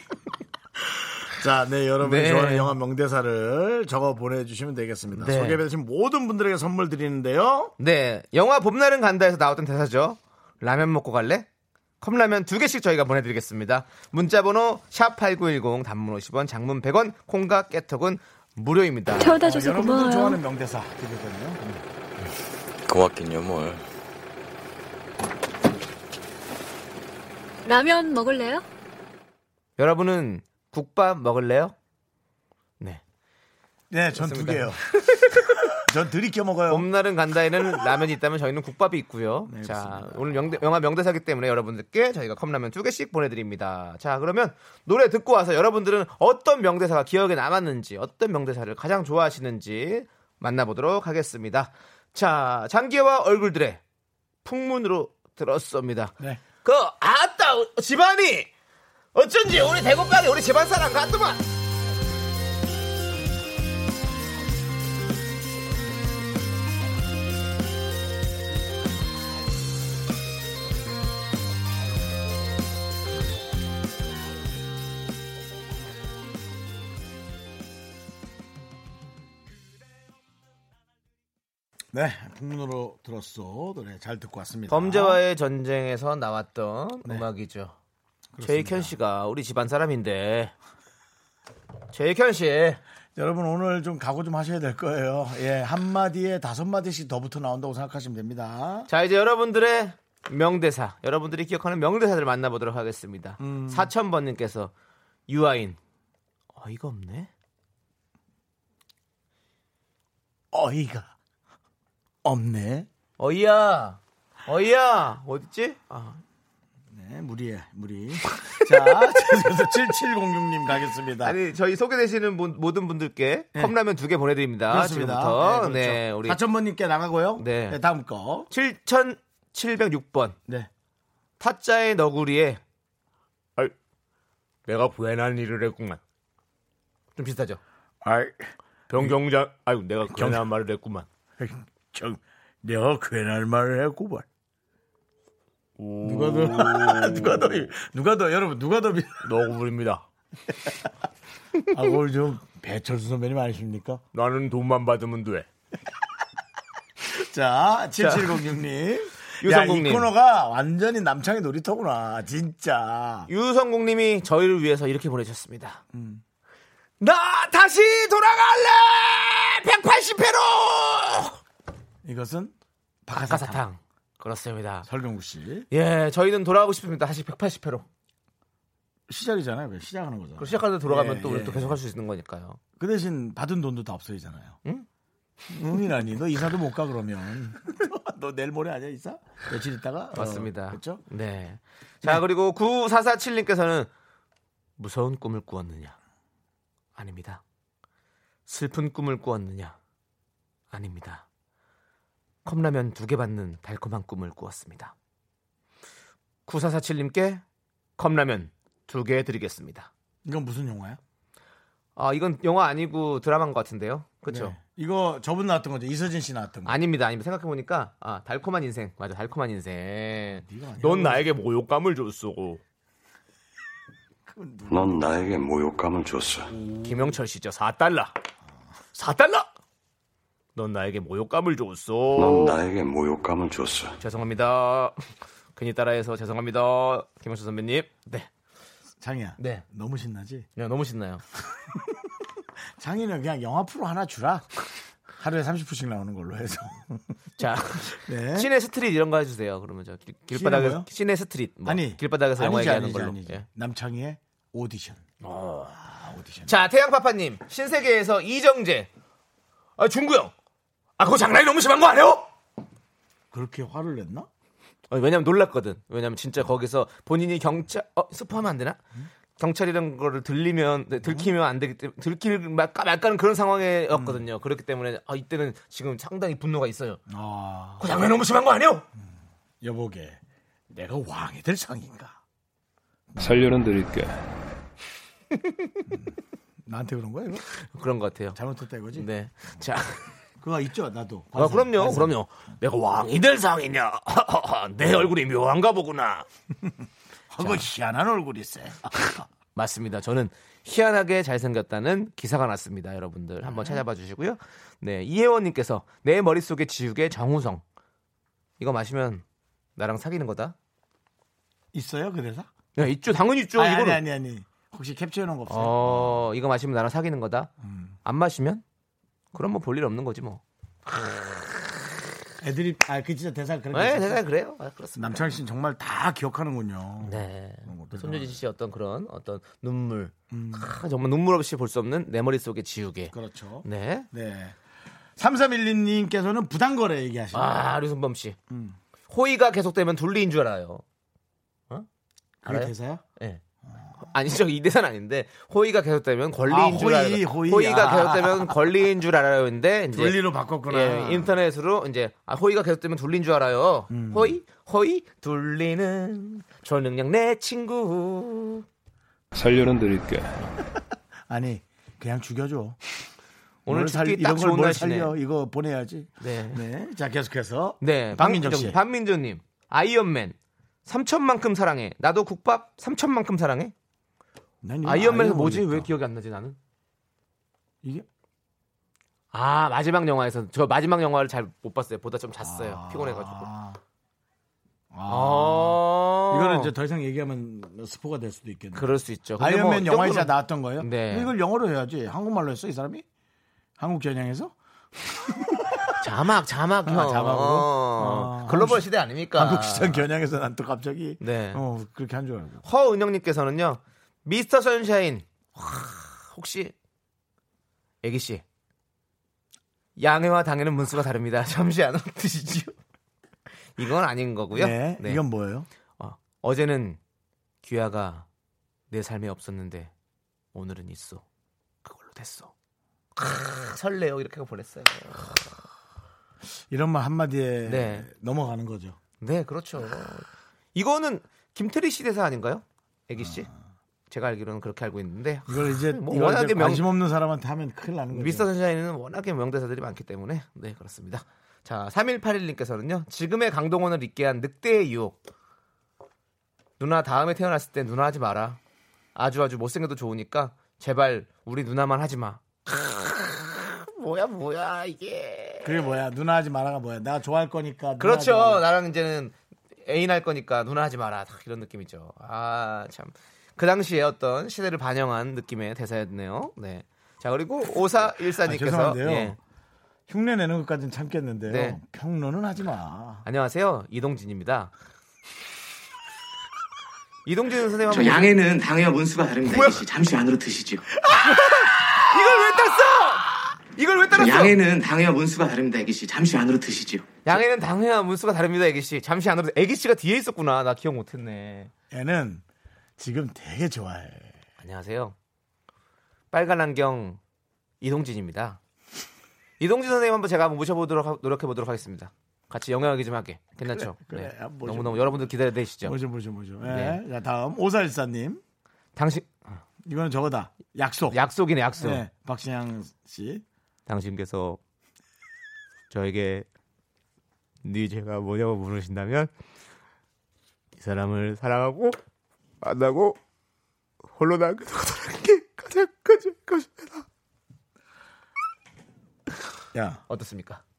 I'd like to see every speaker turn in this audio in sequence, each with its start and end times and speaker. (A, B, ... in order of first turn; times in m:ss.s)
0:00.8-0:07.7 A
0:02.0-0:02.8 B
0:05.2-0:05.6 B
0:07.8-0:11.5 B
0:12.0-0:19.4 B
0:19.2-0:20.4 C
0:19.3-0:21.8 A
0:22.9-0:23.8 D
0:27.7-0:28.6 C
0:29.8-0:31.8 B
0:33.9-0:34.8 A
0:34.1-0:35.6 B
0:35.5-0:36.9 A
0:36.7-0:53.8 B
0:39.5-0:40.7 A
0:54.4-0:58.5 B
0:59.2-1:01.4 B
1:21.9-1:25.2 A
1:24.7-1:27.8 B
1:28.3-1:29.0 A
1:28.4-1:30.5 B
1:31.9-1:32.8 B
1:33.2-1:38.9 A
1:38.9-1:44.7 B
1:43.4-1:43.9 A
1:45.3-1:45.8 B
1:46.6-1:47.3 B
1:50.5-1:51.1 A
1:52.2-1:52.9 A
1:53.2-1:56.2 B
1:56.9-2:01.4 A
1:58.5-1:59.2 B
2:01.2-2:06.4 B
2:04.7-2:08.5 A
2:07.4-2:07.8 B
2:08.5-2:10.4 B
2:11.4-2:12.6 B
2:14.7-2:16.0 B
2:17.2-2:17.6 B
2:18.0-2:19.1 A
2:18.9-2:21.1 B
2:20.1-2:20.4 A
2:21.4-2:24.3 A
2:25.8-2:27.6 B
2:26.0-2:29.3 A
2:29.2-2:30.1 B
2:31.7-2:34.0 A
2:34.1-2:35.5 B
2:37.0-2:43.3 A
2:38.0-2:38.4 B
2:39.4-2:40.1 B
2:43.3-2:45.8 B
2:45.9-2:46.2 A
2:47.0-2:51.4 B
2:52.0-2:52.5 A
2:53.1-2:53.6 A
2:53.2-2:54.9 B
2:54.9-2:55.7 A
2:55.7-2:57.9 B
2:59.1-3:01.8 A
3:00.4-3:02.6 B
3:02.8-3:04.6 A
3:05.5-3:11.0 A
3:10.1-3:13.9 B
3:14.8-3:16.0 B
3:17.0-3:17.4 B
3:18.5-3:19.8 B
3:20.7-3:21.2 B
3:22.4-3:24.9 B
3:26.5-3:27.4 B
3:28.0-3:29.9 B
3:30.2-3:31.0 A
3:32.0-3:34.6 B
3:34.3-3:36.8 A
3:36.7-3:42.6 B
3:40.4-3:41.3 A
3:44.3-3:45.2 A
3:44.7-3:46.5 D
3:46.8-3:48.1 B
3:48.9-3:49.5 B
3:50.6-3:52.6 B
3:52.2-3:54.0 D
3:54.0-3:55.0 B
3:55.6-3:58.3 B
3:59.0-4:00.5 A
3:59.4-3:59.6 B
4:00.6-4:01.2 B
4:02.8-4:04.5 A
4:05.2-4:07.0 A
4:07.4-4:13.4 B
4:08.0-4:08.5 A
4:10.3-4:10.9 A
4:11.6-4:15.0 A
4:15.2-4:15.8 B
4:15.8-4:16.6 A
4:16.5-4:18.9 B
4:19.8-4:20.3 B
4:21.0-4:22.3 B
4:23.3-4:24.3 A
4:24.9-4:28.8 B
4:29.4-4:37.0 B
4:31.0-4:31.3 A
4:33.9-4:34.2 A
4:37.1-4:38.0 A
4:37.8-4:38.8 B
4:39.6-4:42.2 A
4:43.1-4:43.5 A
4:43.2-4:44.1 E
4:46.6-4:47.4 A
4:47.7-4:48.4 B
4:48.4-4:49.1 A
4:48.9-4:50.0 B
4:50.4-4:52.1 A
4:51.4-4:56.3 B
4:57.3-4:59.3 A
4:57.4-4:57.6 B
4:59.6-5:07.6 B
5:03.5-5:03.8 A
5:08.6-5:09.2 B
5:09.8-5:10.6 B
5:11.7-5:12.5 A
5:12.8-5:14.0 B
5:13.6-5:16.2 A
5:15.5-5:17.5 B
5:17.6-5:18.0 A
5:18.0-5:18.6 B
5:19.3-5:20.4 B
5:21.0-5:21.8 B
5:22.4-5:24.2 A
5:23.7-5:25.3 B
5:25.0-5:28.4 A
5:27.0-5:33.1 B
5:30.3-5:30.7 A
5:33.1-5:34.6 A
5:33.6-5:34.1 B
5:35.2-5:37.6 A
5:37.3-5:38.4 B
5:38.5-5:38.8 A
5:39.1-5:40.8 B
5:42.4-5:43.0 A
5:42.5-5:43.4 B
5:44.0-5:58.6 B
5:46.5-5:48.6 A
5:49.9-5:51.3 A
5:53.9-5:54.4 A
5:59.3-6:00.3 E
6:01.3-6:02.8 A
6:03.7-6:05.2 B
6:03.7-6:08.8 A
6:06.2-6:06.6 B
6:07.8-6:13.7 B
6:14.6-6:15.9 A
6:14.8-6:16.6 B
6:19.3-6:23.5 B
6:22.4-6:23.8 A
6:24.9-6:33.0 A
6:25.1-6:26.7 B
6:28.8-6:31.3 B
6:33.8-6:35.9 A
6:36.0-6:40.1 B
6:36.8-6:42.6 A
6:41.2-6:41.6 B
6:42.6-6:46.7 B
6:48.0-6:48.4 B
6:50.0-6:52.8 B
6:53.8-6:55.2 B
6:54.5-6:55.7 A
6:56.0-6:57.0 B
6:57.6-6:58.3 B
6:58.9-6:59.9 B
7:00.5-7:01.2 B
7:01.8-7:02.5 B
7:03.2-7:05.6 B
7:06.7-7:09.0 A
7:07.6-7:08.1 B
7:09.2-7:13.5 B
7:13.2-7:13.6 A
7:14.1-7:16.8 B
7:15.5-7:18.5 A
7:18.1-7:25.2 B
7:26.8-7:28.6 B
7:29.2-7:35.9 B
7:35.6-7:38.7 A
7:38.0-7:49.4 B
7:48.4-7:49.4 A
7:50.1-7:53.2 A
7:51.5-7:51.8 B
7:53.2-7:54.7 B
7:57.3-7:58.3 B
7:57.9-8:00.8 F
7:59.5-7:59.8 B
8:01.1-8:04.6 B
8:01.2-8:01.5 A
8:04.1-8:07.2 F
8:07.2-8:11.7 B
8:11.9-8:12.4 A
8:13.0-8:14.4 A
8:14.6-8:15.2 B
8:16.3-8:17.2 B
8:17.8-8:18.6 B
8:19.6-8:26.0 B
8:23.6-8:28.4 A
8:26.6-8:27.0 B
8:29.0-8:29.6 B
8:29.8-8:31.2 A
8:31.1-8:32.0 B
8:31.8-8:33.4 A
8:33.9-8:34.6 B
8:35.9-8:36.5 B
8:37.6-8:39.3 B
8:40.8-8:42.0 B
8:42.6-8:43.2 B
8:44.2-8:47.1 B
8:49.7-8:50.0 A
8:50.1-8:50.6 B